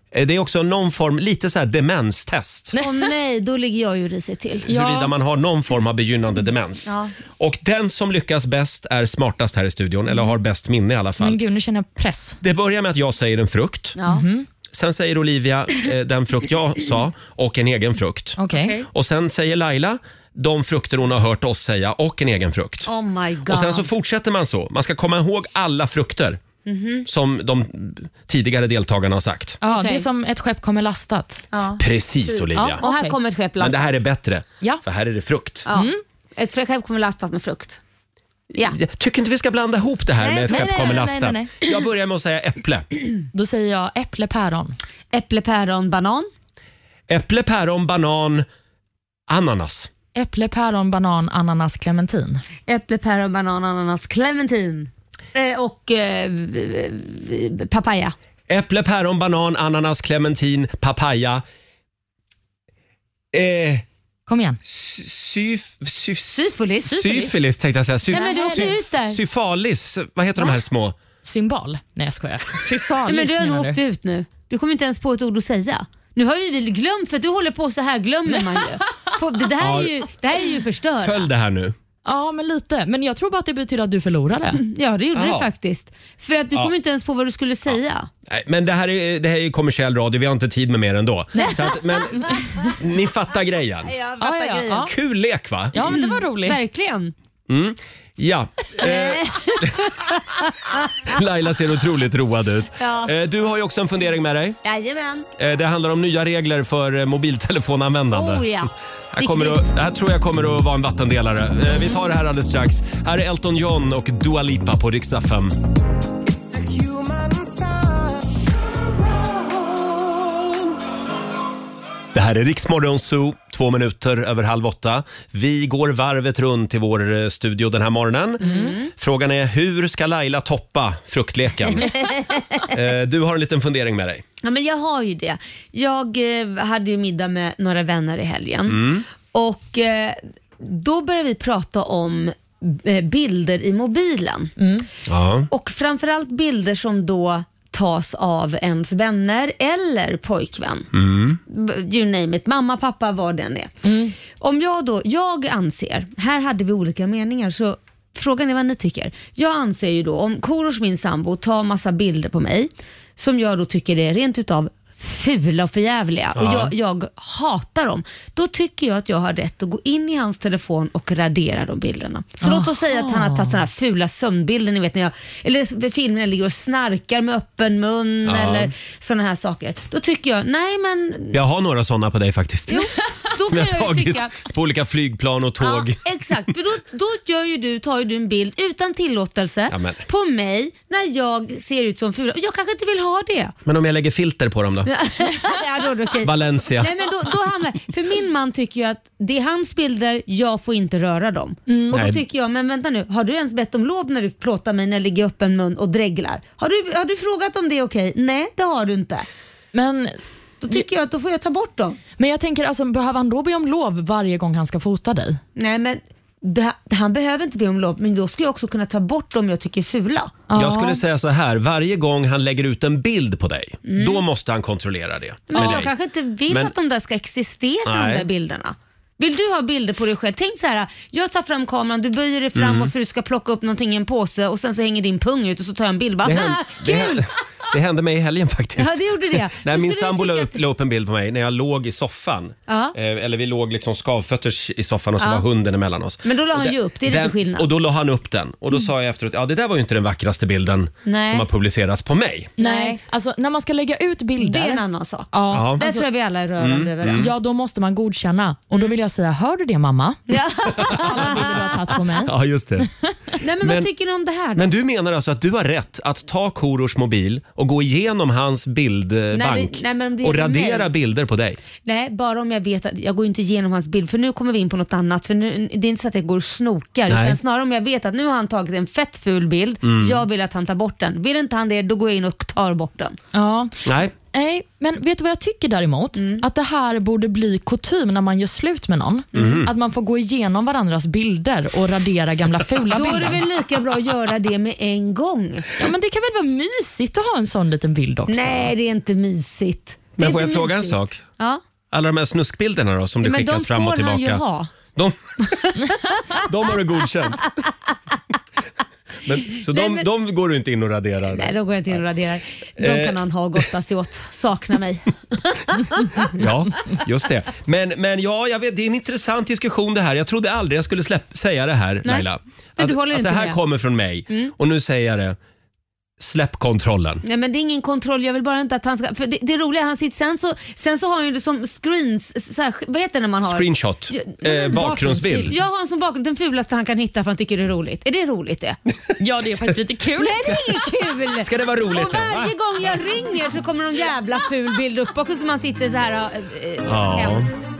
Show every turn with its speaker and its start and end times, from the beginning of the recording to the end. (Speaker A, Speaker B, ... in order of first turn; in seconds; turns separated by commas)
Speaker A: 0.1-2.7, Speaker B: 2.8-4.7, Speaker A: 4.7-11.4, Speaker C: 4.7-5.1, Speaker B: 6.9-7.1, Speaker C: 11.2-12.4, Speaker A: 12.4-13.9, Speaker B: 14.0-14.2, Speaker C: 14.1-14.5, Speaker A: 14.7-18.4, Speaker C: 18.4-18.7, Speaker B: 18.5-18.9, Speaker A: 18.9-22.9, Speaker B: 22.9-23.9, Speaker A: 23.5-26.4, Speaker B: 26.6-27.1, Speaker A: 27.1-29.6, Speaker C: 29.6-31.4, Speaker B: 29.6-30.1, Speaker B: 31.5-34.0, Speaker A: 31.8-32.8, Speaker C: 32.5-33.1, Speaker A: 33.6-35.6, Speaker B: 35.6-37.8, Speaker C: 35.7-36.0, Speaker A: 38.6-42.9, Speaker B: 40.2-41.1, Speaker C: 40.5-41.5, Speaker C: 43.3-44.8, Speaker B: 45.1-46.3, Speaker A: 47.1-48.5, Speaker A: 49.3-49.9, Speaker C: 50.1-52.4, Speaker B: 52.7-58.1, Speaker A: 58.5-61.4, Speaker A: 63.3-63.8, Speaker C: 64.3-64.6, Speaker A: 64.6-71.0, Speaker B: 66.3-67.3, Speaker C: 68.1-68.7, Speaker B: 68.1-69.2, Speaker C: 71.2-73.8, Speaker B: 73.0-81.3, Speaker A: 79.6-79.9, Speaker A: 81.0-81.7, Speaker C: 82.0-84.6, Speaker B: 84.6-88.1, Speaker A: 85.1-85.5, Speaker A: 88.3-94.0, Speaker B: 91.4-92.4, Speaker B: 93.9-94.9, Speaker C: 94.2-94.9, Speaker A: 94.9-95.7, Speaker C: 95.7-96.6, Speaker B: 95.8-97.1, Speaker A: 97.5-100.0, Speaker B: 98.8-101.1, Speaker A: 101.1-104.6, Speaker B: 102.8-103.1, Speaker B: 104.6-105.3, Speaker A: 105.4-108.5, Speaker B: 108.1-109.6, Speaker A: 109.1-115.6, Speaker B: 111.7-112.0, Speaker A: 122.1-134.2, Speaker B: 128.4-128.9, Speaker C: 128.4-128.7, Speaker B: 131.8-132.6, Speaker B: 134.4-144.5, Speaker A: 138.7-139.1, Speaker C: 144.6-144.9, Speaker A: 145.1-145.5, Speaker B: 145.5-150.9, Speaker A: 150.9-151.4, Speaker B: 151.5-153.7, Speaker C: 153.8-154.1, Speaker B: 154.3-181.4, Speaker A: 166.4-166.7, Speaker C: 172.4-173.6, Speaker A: 178.3-178.7, Speaker A: 181.3-182.9, Speaker B: 182.7-184.5, Speaker A: 183.4-186.0, Speaker B: 185.6-193.5, Speaker A: 189.7-190.0, Speaker A: 193.7-194.9, Speaker B: 194.9-209.3, Speaker A: 196.2-196.9, Speaker C: 201.7-202.0, Speaker A: 201.9-202.2, Speaker C: 209.7-210.2, Speaker B: 210.6-212.0, Speaker C: 212.2-215.4, Speaker B: 215.6-220.4, Speaker C: 220.5-221.0, Speaker A: 220.6-225.9, Speaker B: 223.9-224.2, Speaker B: 225.5-237.3, Speaker A: 227.9-228.3, Speaker A: 232.6-232.9, Speaker A: 236.2-252.5, Speaker B: 238.8-240.6, Speaker B: 242.7-242.9, Speaker B: 245.2-245.4, Speaker B: 246.2-247.7, Speaker B: 251.1-251.5, Speaker B: 252.6-253.0, Speaker C: 252.6-254.8, Speaker B: 254.4-257.3, Speaker C: 255.3-256.0, Speaker A: 255.5-255.8, Speaker A: 256.6-257.3, Speaker C: 257.2-262.3, Speaker B: 260.3-261.9, Speaker A: 260.8-261.7, Speaker A: 262.2-262.9, Speaker B: 263.4-264.7, Speaker A: 263.6-263.9, Speaker A: 264.6-271.6, Speaker B: 269.3-270.9, Speaker B: 271.8-283.2, Speaker A: 277.1-277.4, Speaker A: 279.8-280.2, Speaker C: 283.3-293.4, Speaker A: 283.9-284.1, Speaker B: 286.2-286.4, Speaker B: 289.3-289.6, Speaker A: 289.3-289.7, Speaker B: 292.9-295.7, Speaker C: 295.8-298.7, Speaker B: 298.3-301.6, Speaker A: 300.2-301.2, Speaker A: 301.9-304.4, Speaker B: 303.2-304.7, Speaker A: 304.9-305.5, Speaker A: 306.3-307.6, Speaker A: 309.2-312.0, Speaker B: 309.6-310.1, Speaker B: 311.3-316.4, Speaker A: 312.8-313.2, Speaker A: 316.3-325.4, Speaker B: 322.8-323.6, Speaker A: 326.2-327.2, Speaker B: 327.2-334.8, Speaker A: 333.4-335.5, Speaker C: 334.7-335.5, Speaker B: 335.5-338.8, Speaker C: 339.2-340.6, Speaker B: 340.1-347.6, Speaker A: 341.4-342.5, Speaker A: 346.9-347.5